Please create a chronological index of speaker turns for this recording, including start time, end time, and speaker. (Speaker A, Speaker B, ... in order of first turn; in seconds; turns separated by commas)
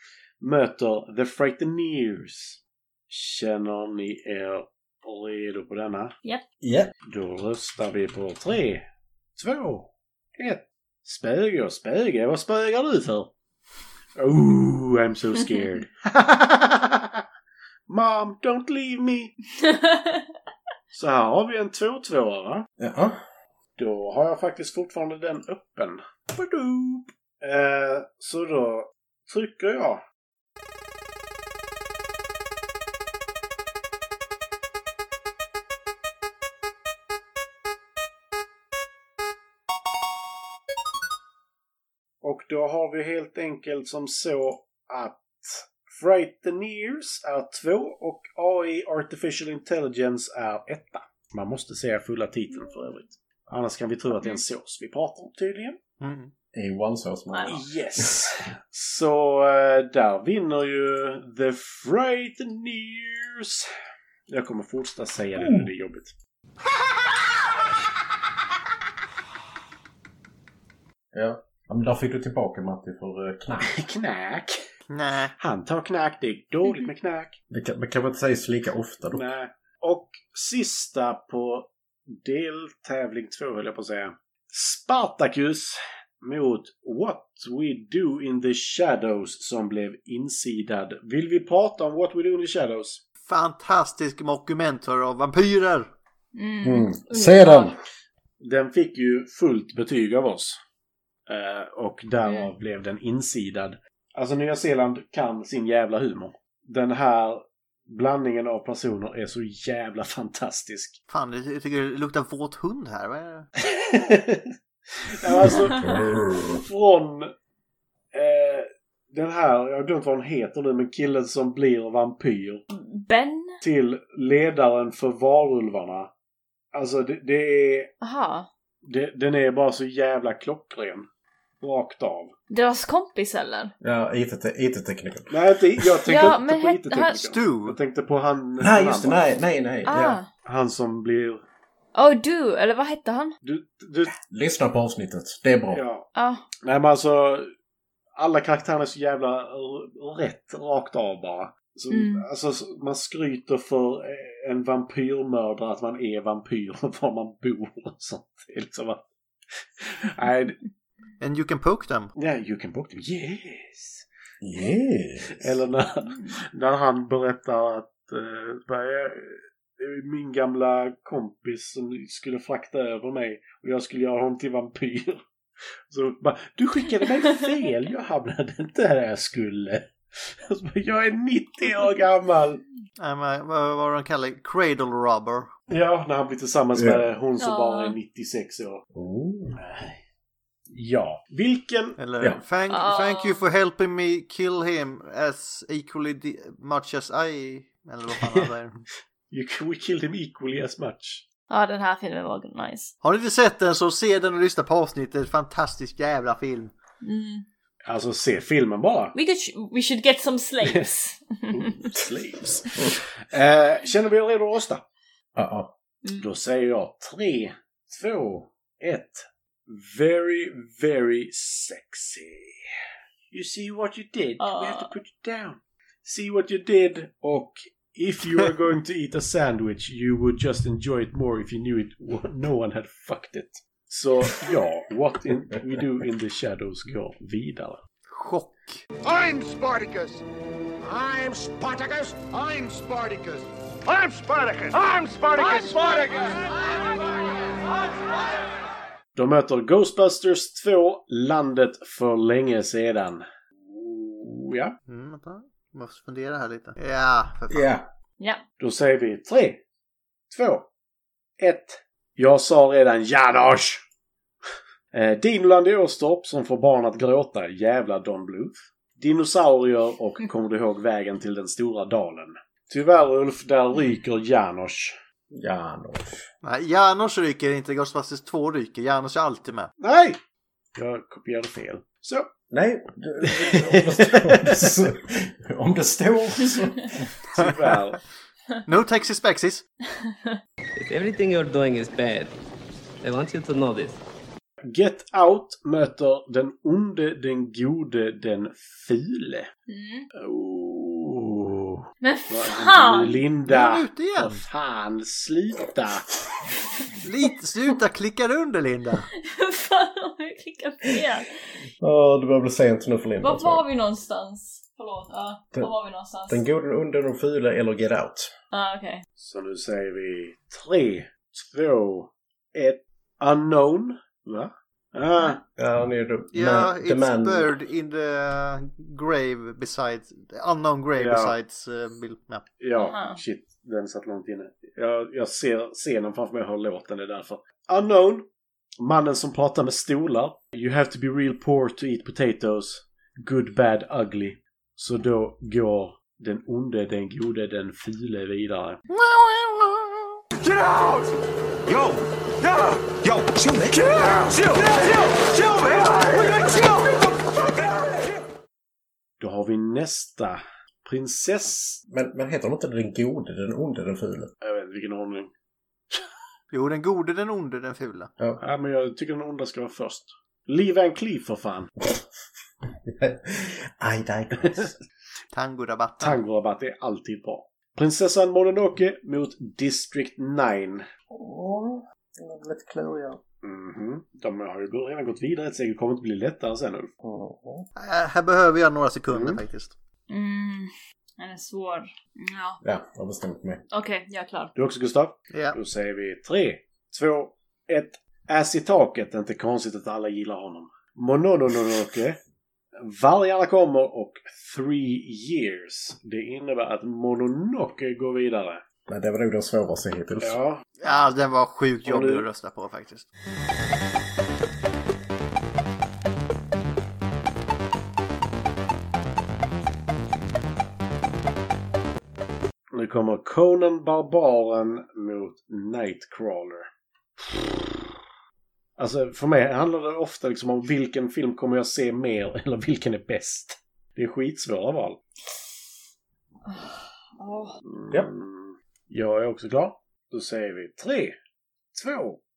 Speaker A: 0.4-6.1, Speaker B: 6.6-6.9, Speaker A: 7.1-8.8, Speaker A: 9.4-13.3, Speaker A: 14.2-17.2, Speaker A: 17.9-19.3, Speaker C: 19.6-20.3, Speaker A: 20.9-22.7, Speaker B: 22.8-23.2, Speaker A: 23.8-30.0, Speaker A: 42.2-55.8, Speaker D: 56.0-56.3, Speaker B: 56.5-58.1, Speaker C: 57.3-57.6, Speaker A: 57.5-63.7, Speaker A: 64.3-66.1, Speaker B: 65.4-65.7, Speaker B: 71.1-73.7, Speaker A: 73.6-74.6, Speaker D: 74.9-75.3, Speaker A: 75.4-77.4, Speaker B: 77.5-79.3, Speaker A: 79.1-93.0, Speaker D: 93.3-95.9, Speaker C: 96.3-97.8, Speaker B: 96.6-97.8, Speaker A: 98.4-100.6, Speaker A: 101.3-111.0, Speaker D: 111.1-113.5, Speaker A: 113.7-117.3, Speaker B: 115.4-116.6, Speaker A: 118.1-122.6, Speaker C: 122.7-123.6, Speaker A: 123.6-126.1, Speaker A: 126.7-127.9, Speaker C: 128.0-128.5, Speaker A: 128.8-131.1, Speaker A: 131.6-132.3, Speaker C: 132.5-133.7, Speaker B: 133.8-136.0, Speaker A: 135.3-139.3, Speaker C: 136.1-137.2, Speaker D: 137.2-137.8, Speaker B: 138.6-140.2, Speaker C: 139.9-140.3, Speaker A: 140.4-141.4, Speaker C: 141.9-143.3, Speaker A: 143.4-144.1, Speaker B: 144.2-145.8, Speaker A: 145.7-146.1, Speaker C: 146.2-146.5, Speaker A: 146.6-147.5, Speaker A: 148.2-159.0, Speaker C: 151.9-152.2, Speaker A: 159.8-160.6, Speaker D: 161.2-162.1, Speaker A: 162.2-164.1, Speaker B: 164.4-165.6, Speaker A: 165.3-175.2, Speaker A: 175.9-182.6, Speaker D: 183.0-185.5, Speaker A: 185.7-188.8, Speaker B: 186.8-187.1, Speaker C: 187.4-188.0, Speaker B: 188.9-189.6, Speaker A: 189.6-190.0, Speaker A: 190.7-192.0, Speaker D: 192.0-198.8, Speaker C: 192.7-193.4, Speaker A: 199.3-201.2, Speaker C: 201.5-202.9, Speaker D: 203.0-206.7, Speaker C: 207.0-207.4, Speaker A: 207.9-209.1, Speaker C: 209.2-211.9, Speaker A: 210.6-210.9, Speaker A: 211.5-214.8, Speaker B: 215.4-215.7, Speaker A: 216.2-222.6, Speaker A: 223.3-237.8, Speaker C: 224.4-224.9, Speaker D: 238.1-238.8, Speaker A: 249.2-254.8, Speaker D: 254.9-257.7, Speaker B: 257.5-257.9, Speaker A: 258.6-259.6, Speaker A: 260.3-260.7, Speaker A: 261.4-263.8, Speaker A: 264.9-275.0, Speaker B: 275.3-276.2, Speaker D: 276.4-279.7, Speaker A: 279.8-280.2, Speaker A: 280.8-282.3, Speaker B: 282.5-286.9, Speaker A: 283.3-284.8, Speaker A: 287.4-288.0, Speaker D: 288.7-289.6, Speaker C: 290.0-290.4, Speaker E: 290.8-292.3, Speaker E: 293.0-294.0, Speaker A: 294.7-299.5, Speaker C: 299.7-300.1, Speaker A: 300.1-306.1, Speaker C: 302.0-303.2, Speaker D: 303.5-304.4, Speaker D: 307.0-309.1, Speaker C: 309.2-311.4, Speaker B: 311.8-313.6, Speaker C: 313.2-316.4, Speaker B: 316.3-318.3, Speaker C: 318.5-319.0, Speaker A: 319.2-325.4, Speaker B: 325.6-327.5, Speaker D: 326.3-332.4, Speaker A: 331.0-331.4, Speaker A: 332.6-338.3, Speaker C: 332.8-333.2, Speaker A: 338.8-348.8, Speaker D: 348.9-350.2, Speaker F: 350.4-351.0, Speaker F: 351.7-357.1, Speaker F: 357.8-358.1, Speaker A: 359.2-361.8, Speaker B: 361.9-364.3, Speaker A: 364.4-365.3, Speaker D: 366.5-368.1, Speaker A: 368.4-371.7, Speaker B: 372.8-374.8, Speaker D: 375.3-376.2, Speaker A: 376.0-380.9, Speaker B: 381.1-383.2, Speaker A: 383.4-386.9, Speaker B: 387.0-387.7, Speaker D: 387.8-389.7, Speaker C: 390.1-392.6, Speaker B: 392.6-393.6, Speaker C: 393.7-394.5, Speaker A: 394.6-402.2, Speaker D: 395.3-395.6, Speaker A: 402.8-408.6, Speaker B: 408.9-410.4, Speaker A: 410.2-410.6, Speaker D: 410.8-413.1, Speaker A: 411.9-412.3, Speaker A: 422.7-426.7, Speaker A: 427.2-427.9, Speaker A: 428.8-435.0, Speaker C: 436.5-437.6, Speaker A: 437.7-441.1, Speaker A: 441.7-442.2